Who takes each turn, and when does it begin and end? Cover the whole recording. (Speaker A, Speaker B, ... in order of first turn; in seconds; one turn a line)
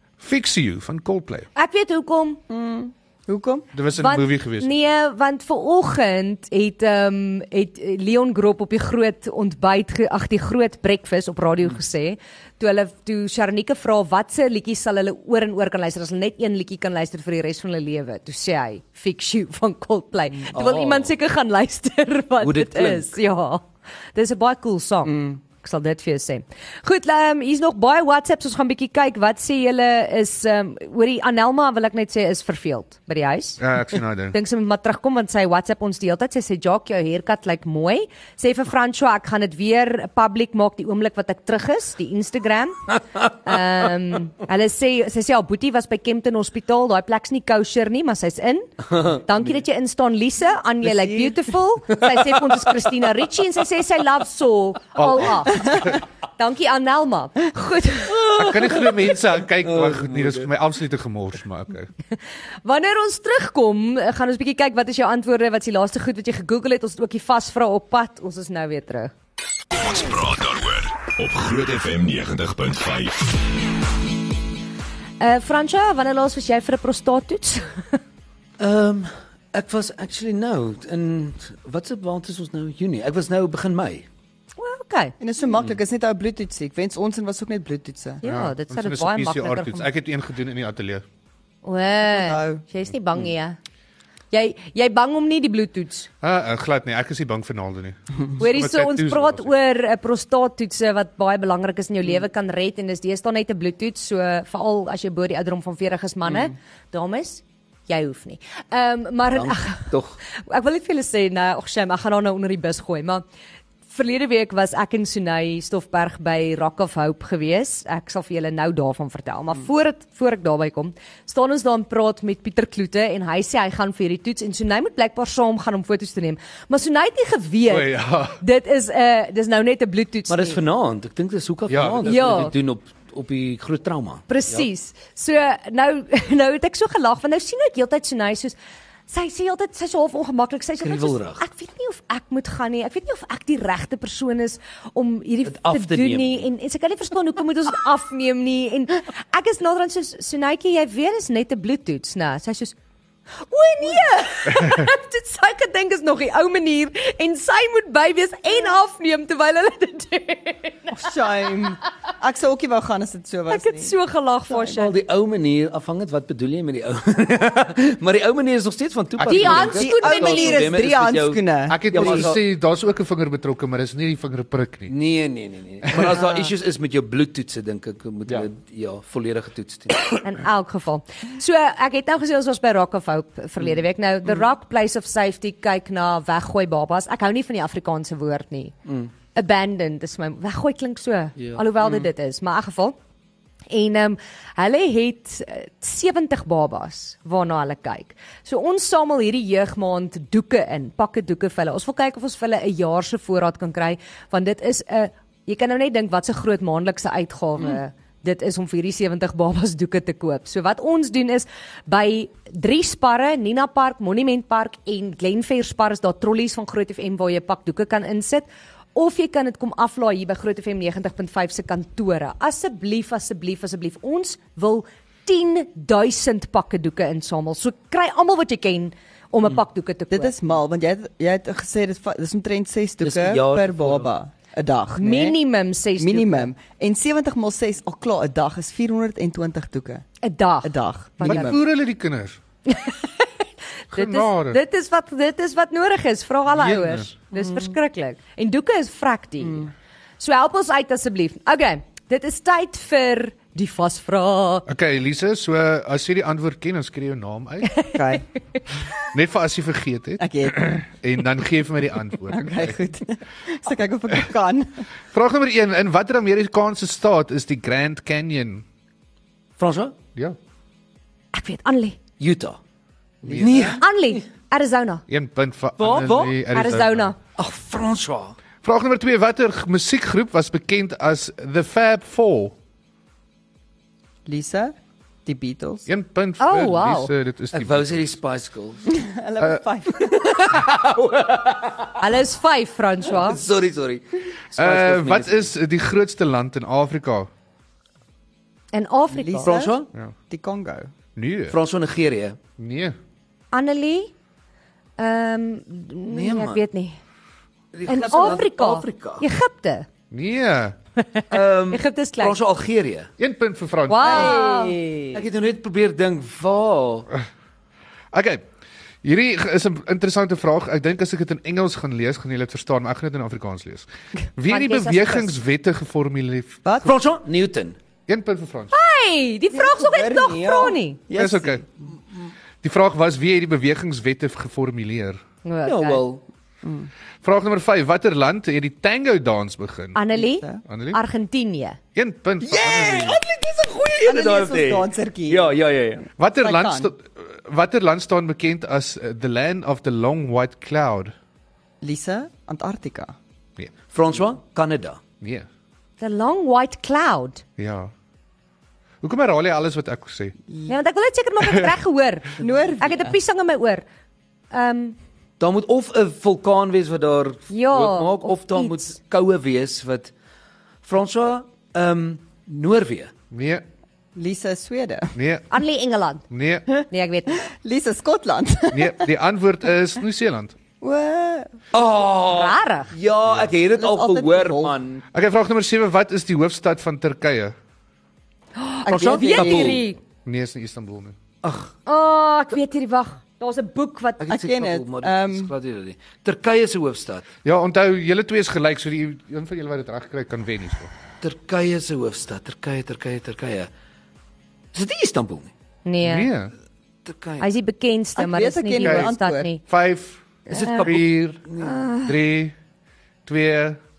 Speaker A: 0.2-1.5
Speaker B: 1.5-2.4
Speaker C: 2.5-3.6
Speaker A: 3.7-4.7
Speaker B: 4.0-33.6
Speaker D: 20.5-21.1
Speaker D: 22.4-23.1
Speaker C: 25.0-25.4
Speaker A: 33.6-34.4
Speaker B: 34.3-58.2
Speaker C: 50.9-51.3
Speaker A: 55.0-56.0
Speaker D: 58.1-60.5
Speaker A: 58.3-61.9
Speaker B: 62.6-69.1
Speaker E: 69.7-73.4
Speaker B: 75.2-77.8
Speaker D: 78.6-84.0
Speaker B: 84.6-85.1
Speaker C: 85.2-88.2
Speaker B: 88.2-89.9
Speaker A: 88.2-91.0
Speaker B: 91.6-93.5
Speaker C: 92.1-92.6
Speaker B: 94.3-96.1
Speaker A: 96.2-99.5
Speaker B: 98.4-113.2
Speaker D: 109.3-110.2
Speaker B: 113.9-130.6
Speaker A: 127.7-128.4
Speaker D: 130.3-134.6
Speaker A: 131.7-132.3
Speaker B: 132.0-132.5
Speaker B: 134.3-138.6
Speaker B: 139.1-152.7
Speaker D: 140.8-141.4
Speaker D: 145.4-146.4
Speaker B: 153.5-161.1
Speaker C: 160.9-163.9
Speaker B: 163.5-164.9
Speaker D: 164.6-172.4
Speaker B: 169.2-170.6
Speaker C: 169.3-172.3
Speaker A: 171.7-174.9
Speaker D: 174.9-180.2
Speaker A: 175.9-176.2
Speaker B: 180.2-188.7
Speaker B: 189.3-192.9
Speaker D: 191.4-192.1
Speaker B: 193.7-230.3
Speaker C: 230.1-235.4
Speaker D: 233.0-234.1
Speaker B: 234.9-236.5
Speaker C: 236.0-240.0
Speaker B: 240.2-241.5
Speaker C: 240.6-241.6
Speaker A: 241.2-242.4
Speaker B: 242.7-243.2
Speaker B: 243.9-254.7
Speaker A: 243.9-244.6
Speaker A: 246.5-247.1
Speaker C: 249.4-249.7
Speaker A: 254.7-257.8
Speaker B: 257.6-258.2
Speaker C: 257.9-258.2
Speaker A: 259.0-262.7
Speaker C: 260.2-260.8
Speaker C: 262.3-264.8
Speaker A: 265.1-268.6
Speaker D: 269.6-269.9
Speaker B: 271.3-272.0
Speaker D: 272.2-272.6
Speaker C: 273.2-273.8
Speaker A: 273.3-273.8
Speaker D: 273.4-274.2
Speaker B: 273.7-275.0
Speaker A: 275.1-277.1
Speaker D: 275.8-276.4
Speaker B: 276.5-277.2
Speaker D: 277.4-278.3
Speaker A: 278.6-282.5
Speaker C: 284.2-284.7
Speaker C: 285.2-285.9
Speaker A: 285.9-288.1
Speaker B: 286.4-287.1
Speaker D: 287.5-288.9
Speaker C: 288.9-290.4
Speaker D: 290.0-292.0
Speaker B: 292.0-293.4
Speaker D: 293.1-295.5
Speaker A: 294.6-297.3
Speaker B: 298.7-299.5
Speaker C: 299.1-300.9
Speaker D: 299.4-299.9
Speaker A: 301.1-301.6
Speaker D: 301.5-302.4
Speaker A: 302.6-302.9
Speaker B: 303.5-304.1
Speaker B: 305.0-307.0
Speaker D: 306.1-306.6
Speaker D: 307.7-309.2
Speaker B: 307.9-309.9
Speaker A: 310.1-310.8
Speaker B: 311.0-312.4
Speaker D: 311.3-313.1
Speaker A: 313.2-314.2
Speaker B: 313.9-314.8
Speaker C: 314.0-315.2
Speaker D: 315.1-317.1
Speaker A: 318.1-318.4
Speaker A: 319.0-326.6
Speaker B: 324.5-325.4
Speaker C: 326.6-326.9
Speaker D: 326.8-327.8
Speaker A: 328.1-328.7
Speaker B: 328.7-331.0
Speaker C: 329.5-331.6
Speaker A: 331.1-331.6
Speaker A: 332.6-335.2
Speaker B: 335.4-336.0
Speaker D: 335.6-336.2
Speaker C: 336.6-336.9
Speaker A: 337.2-340.0
Speaker B: 339.9-341.8
Speaker C: 340.1-340.6
Speaker A: 340.6-341.0
Speaker A: 341.9-343.2
Speaker D: 342.4-346.1
Speaker C: 344.0-345.6
Speaker A: 346.2-351.1
Speaker C: 346.3-346.9
Speaker C: 351.8-353.1
Speaker D: 353.9-355.0
Speaker A: 355.2-355.5
Speaker B: 356.0-357.4
Speaker A: 357.6-357.9
Speaker A: 359.0-360.4
Speaker B: 360.6-363.8
Speaker C: 362.4-363.2
Speaker B: 364.5-365.0
Speaker D: 365.4-370.1
Speaker B: 367.5-368.9
Speaker D: 370.8-373.1
Speaker A: 373.3-373.6
Speaker C: 374.1-375.1
Speaker A: 375.1-375.5
Speaker B: 375.5-376.2
Speaker A: 376.3-376.6
Speaker B: 376.9-377.4
Speaker C: 377.4-379.1
Speaker A: 378.7-380.6
Speaker C: 380.8-381.6
Speaker D: 381.7-385.0
Speaker B: 382.3-382.9
Speaker C: 383.7-385.0
Speaker A: 385.1-387.5
Speaker B: 388.6-390.0
Speaker C: 388.9-389.8
Speaker D: 388.9-389.8
Speaker A: 390.2-391.1
Speaker D: 391.4-391.7
Speaker B: 391.9-394.3
Speaker D: 394.2-397.2
Speaker C: 394.3-395.5
Speaker A: 397.4-400.9
Speaker D: 401.2-403.7
Speaker D: 404.7-405.5
Speaker B: 405.8-406.3
Speaker A: 406.0-406.5
Speaker D: 407.1-407.4
Speaker B: 407.4-409.6
Speaker C: 408.1-409.5
Speaker A: 408.8-409.1
Speaker A: 409.6-410.2
Speaker B: 410.5-410.9
Speaker D: 410.5-411.8
Speaker A: 410.8-411.4
Speaker B: 411.6-412.1
Speaker A: 412.0-412.5
Speaker A: 413.2-413.8